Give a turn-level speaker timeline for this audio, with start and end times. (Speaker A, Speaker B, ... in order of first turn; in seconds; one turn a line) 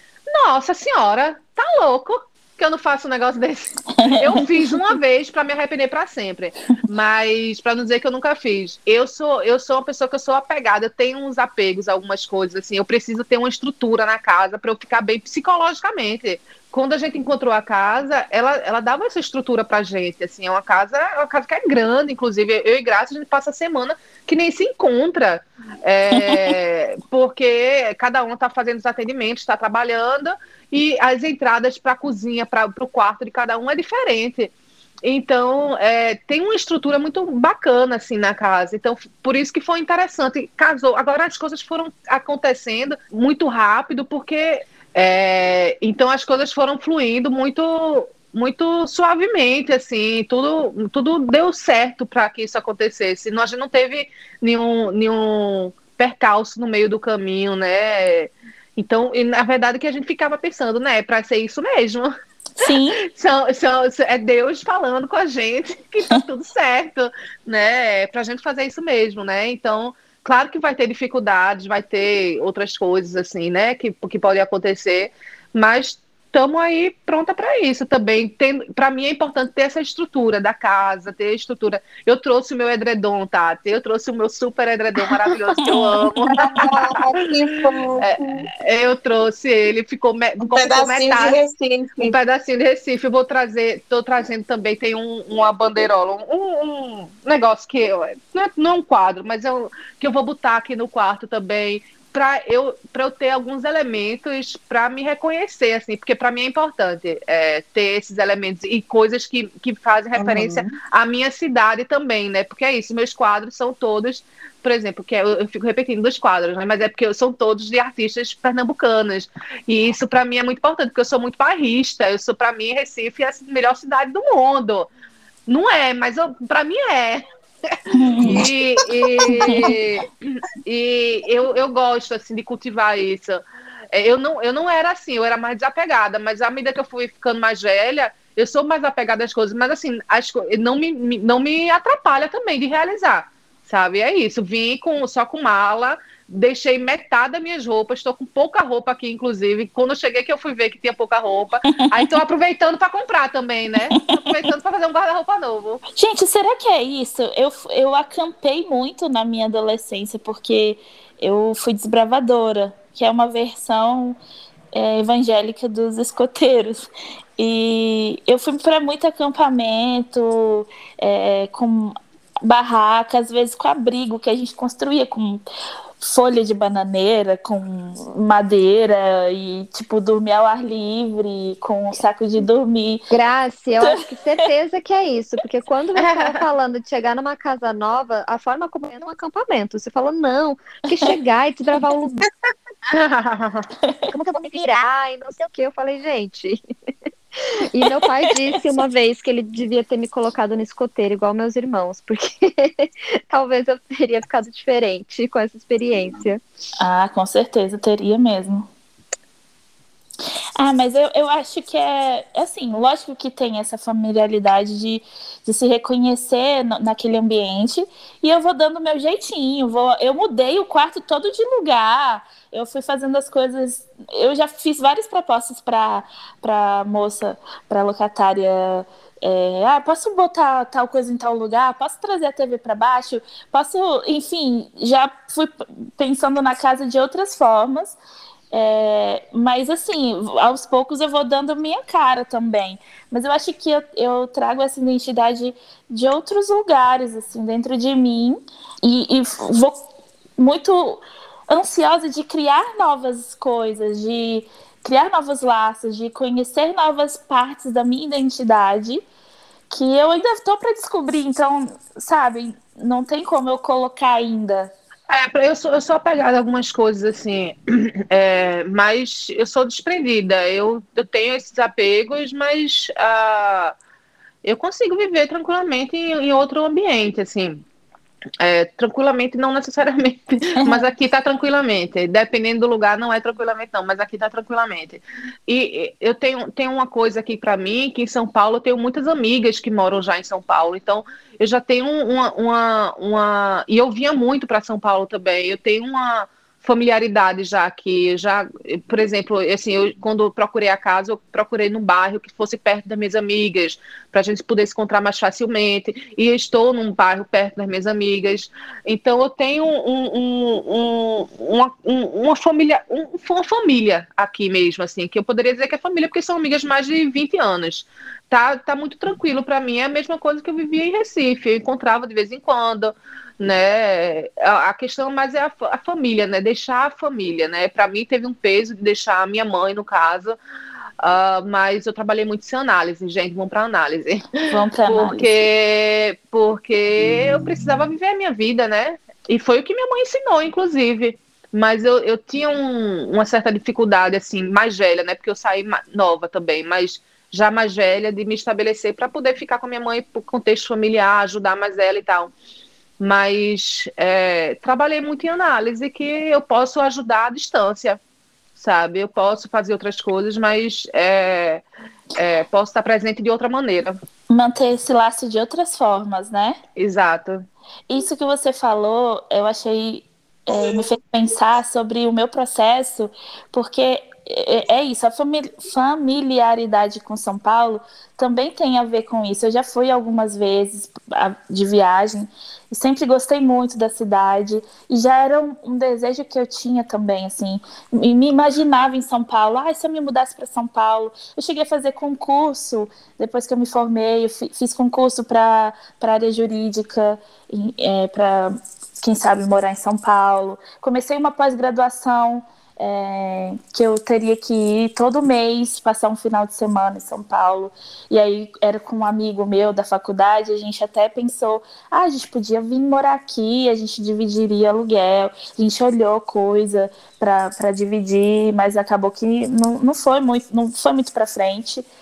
Speaker A: 0.3-34.5
Speaker B: 4.0-4.7
Speaker A: 35.0-62.1
Speaker B: 62.6-63.0
Speaker A: 63.0-87.0
Speaker B: 85.7-86.4
Speaker C: 86.3-88.5
Speaker A: 88.0-91.4
Speaker C: 90.4-92.2
Speaker A: 92.0-124.9
Speaker C: 110.1-110.7
Speaker A: 125.5-133.4
Speaker B: 127.9-128.5
Speaker C: 129.1-129.4
Speaker B: 129.4-129.7
Speaker A: 133.9-155.8
Speaker B: 151.9-152.2
Speaker B: 155.9-164.2
Speaker B: 164.7-175.4
Speaker B: 176.0-183.0
Speaker D: 183.1-192.2
Speaker B: 183.8-184.4
Speaker A: 186.0-186.4
Speaker A: 192.9-193.7
Speaker D: 194.1-196.6
Speaker D: 197.5-206.4
Speaker B: 206.8-208.7
Speaker B: 210.6-237.9
Speaker B: 238.5-249.8
Speaker B: 250.4-259.0
Speaker B: 259.7-264.7
Speaker A: 265.1-273.7
Speaker A: 274.4-277.6
Speaker A: 278.4-330.4
Speaker B: 280.6-280.9
Speaker A: 331.0-352.3
Speaker B: 334.5-335.3
Speaker A: 353.0-358.0
Speaker A: 358.6-361.6
Speaker A: 362.1-364.0
Speaker B: 364.3-366.6
Speaker A: 366.8-367.4
Speaker B: 367.9-421.9